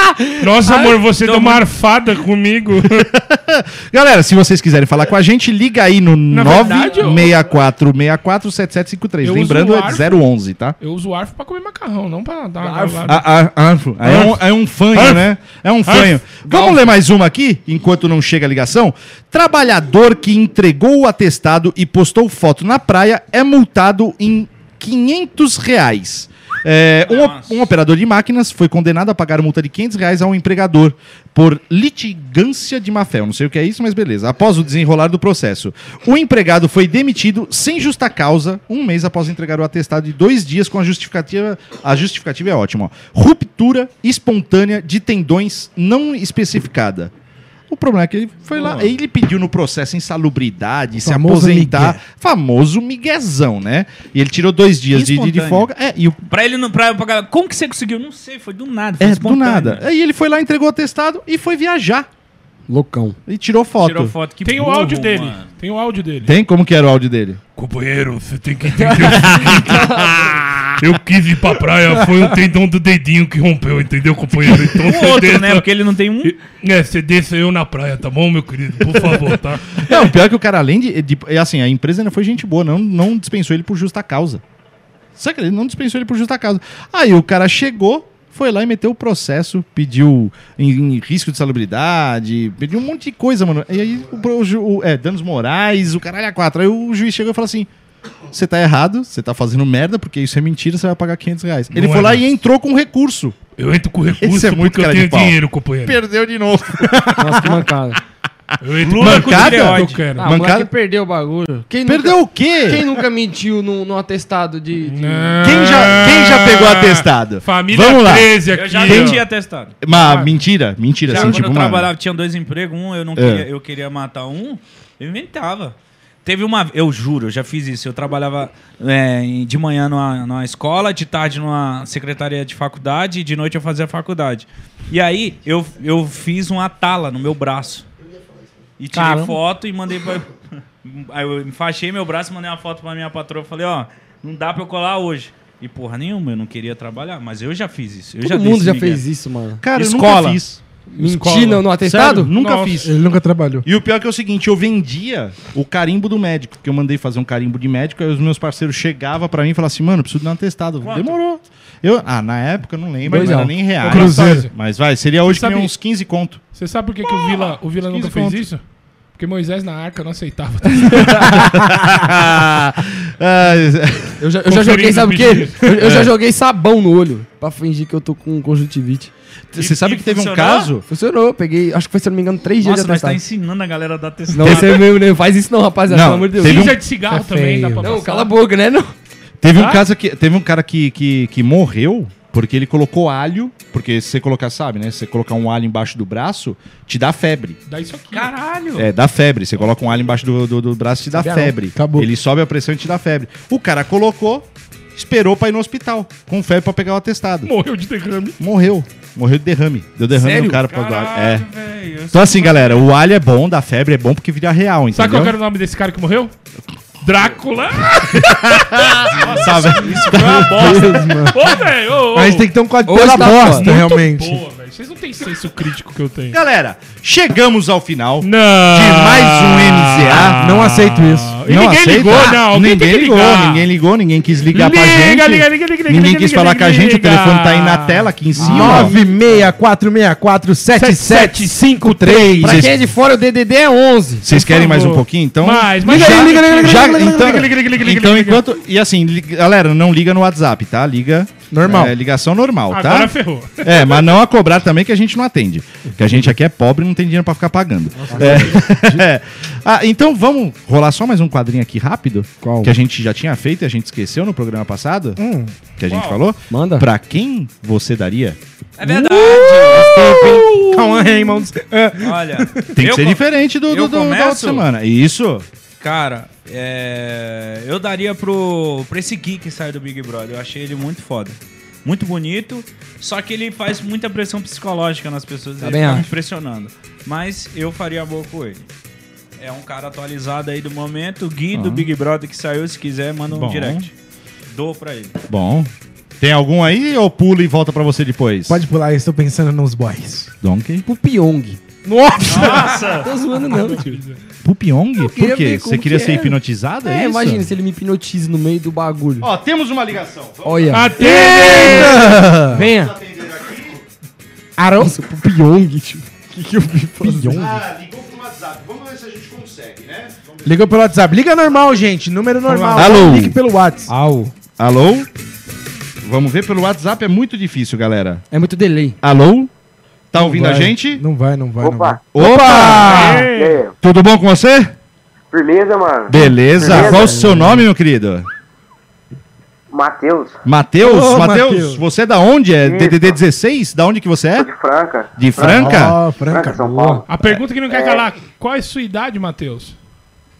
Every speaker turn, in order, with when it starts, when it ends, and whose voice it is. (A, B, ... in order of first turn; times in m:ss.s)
0:00.4-0:03.1 A
0:00.8-0:01.6 B
0:03.0-0:10.8 C
0:06.3-0:07.3 A
0:09.2-0:10.2 A
0:10.8-0:13.2 A
0:12.6-0:13.0 D
0:13.0-0:47.1 C
0:14.0-0:14.4 A
0:14.9-0:15.2 A
0:15.8-0:16.8 A
0:27.0-0:27.6 B
0:47.7-0:56.2 C
0:48.6-0:48.9 B
0:51.0-0:52.0 E
0:54.9-0:55.7 B
0:56.3-0:59.8 B
0:59.0-1:02.1 C
1:02.7-1:03.2 D
1:03.3-1:04.1 C
1:03.8-1:05.5 B
1:04.4-1:06.3 A
1:06.2-1:07.4 C
1:07.6-1:09.9 A
1:08.8-1:10.0 D
1:09.1-1:10.6 C
1:10.8-1:15.6 A
1:14.7-1:16.4 B
1:16.2-1:19.9 A
1:19.8-1:24.4 C
1:25.2-1:37.7 C
1:38.3-1:43.4 C
1:41.7-1:42.2 A
1:43.6-1:46.0 A
1:44.2-1:47.6 C
1:47.2-1:48.0 D
1:48.6-1:50.3 A
1:48.8-1:50.0 B
1:48.9-1:50.7 C
1:50.2-1:55.4 D
1:51.8-1:52.9 C
1:54.9-1:59.2 A
1:55.4-1:59.2 C
1:58.5-1:59.7 B
1:59.8-2:01.9 C
1:59.9-2:00.3 A
2:01.0-2:17.8 B
2:03.2-2:03.5 C
2:18.8-2:29.0 B
2:18.9-2:19.3 D
2:28.2-2:29.6 D
2:29.6-2:30.6 C
2:29.7-2:30.4 B
2:30.9-2:32.3 D
2:31.2-2:31.6 A
2:31.8-2:32.9 C
2:32.3-2:32.9 A
2:32.8-2:33.6 E
2:33.6-2:46.4 C
2:40.8-2:41.2 B
2:43.0-2:44.1 D
2:43.8-2:44.5 A
2:43.9-2:44.4 E
2:45.2-2:45.7 A
2:46.5-2:51.4 A
2:47.0-2:48.4 C
2:50.7-2:51.7 D
2:51.0-2:54.2 C
2:54.2-2:59.1 D
2:54.4-2:55.8 A
2:55.8-2:56.1 C
2:59.5-3:00.8 C
2:59.6-3:00.7 B
3:00.9-3:03.2 D
3:02.6-3:04.9 B
3:04.3-3:08.9 D
3:05.9-3:06.8 C
3:06.4-3:08.3 A
3:07.3-3:07.8 E
3:09.4-3:17.6 C
3:09.6-3:09.8 A
3:17.7-3:18.3 A
3:18.1-3:18.9 B
3:18.8-3:27.5 C
3:21.1-3:22.0 D
3:21.8-3:22.1 E
3:27.4-3:28.4 A
3:28.4-3:31.5 C
3:30.1-3:32.8 B
3:32.1-3:35.3 C
3:34.9-3:36.3 A
3:37.0-3:42.5 A
3:38.1-3:40.4 C
3:39.2-3:41.4 B
3:40.4-3:41.3 D
3:40.5-3:41.3 E
3:42.1-3:44.4 E
3:42.9-3:43.8 D
3:43.5-3:46.4 A
3:46.3-3:50.4 C
3:48.2-3:53.6 A
3:50.4-3:51.4 E
3:51.5-3:58.9 C
3:54.5-3:58.9 A
3:58.4-3:59.4 D
3:58.4-4:02.7 E
4:00.7-4:02.4 A
4:02.0-4:04.2 D
4:02.4-4:02.8 C
4:04.2-4:25.2 C
4:04.3-4:08.4 A
4:05.8-4:07.5 E
4:11.5-4:11.9 E
4:12.7-4:14.0 A
4:18.1-4:19.0 E
4:18.1-4:18.6 D
4:22.4-4:22.7 D
4:25.2-4:25.5 E
4:25.8-4:28.4 C
4:25.9-4:26.2 B
4:26.5-4:26.9 D
4:28.8-4:30.2 B
4:28.9-4:32.6 E
4:30.0-4:31.1 C
4:32.0-4:34.6 B
4:32.7-4:35.4 C
4:35.8-4:48.6 B
4:45.6-4:46.1 D
4:49.4-4:53.9 B
4:51.5-4:51.9 C
4:53.3-4:53.9 C
4:54.5-4:55.1 B
4:55.3-4:58.6 C
4:58.5-5:00.3 E
5:00.4-5:00.8 C
5:00.8-5:01.6 D
5:01.8-5:03.1 E
5:02.2-5:03.1 B
5:03.0-5:04.0 D
5:03.4-5:04.2 A
5:04.4-5:07.5 C
5:05.0-5:09.3 D
5:09.2-5:13.8 C
5:10.4-5:12.9 D
5:10.7-5:12.1 A
5:11.1-5:12.6 E
5:14.6-5:14.9 E
5:14.8-5:17.4 D
5:17.0-5:17.6 E
5:17.2-5:20.6 C
5:20.4-5:23.9 E
5:22.5-5:23.1 A
5:22.7-5:23.4 C
5:23.9-5:24.3 D
5:24.6-5:25.1 C
5:26.0-5:28.2 C
5:28.3-5:29.0 D
5:29.0-5:29.5 C
5:30.1-5:31.0 C
5:30.2-5:33.3 E
5:31.6-5:32.0 F
5:32.1-5:33.2 C
5:32.2-5:32.7 D
5:32.8-5:33.6 A
5:33.2-5:33.7 F
5:33.8-5:34.7 C
5:35.3-5:37.2 F
5:36.1-5:38.3 C
5:36.6-5:37.6 D
5:39.7-5:40.4 F
5:40.4-5:44.5 C
5:40.8-5:41.8 E
5:42.6-5:43.2 F
5:44.4-5:47.2 F
5:45.2-5:46.0 C
5:45.4-5:46.6 E
5:46.5-5:47.0 D
5:47.1-5:49.8 A
5:47.7-5:48.0 F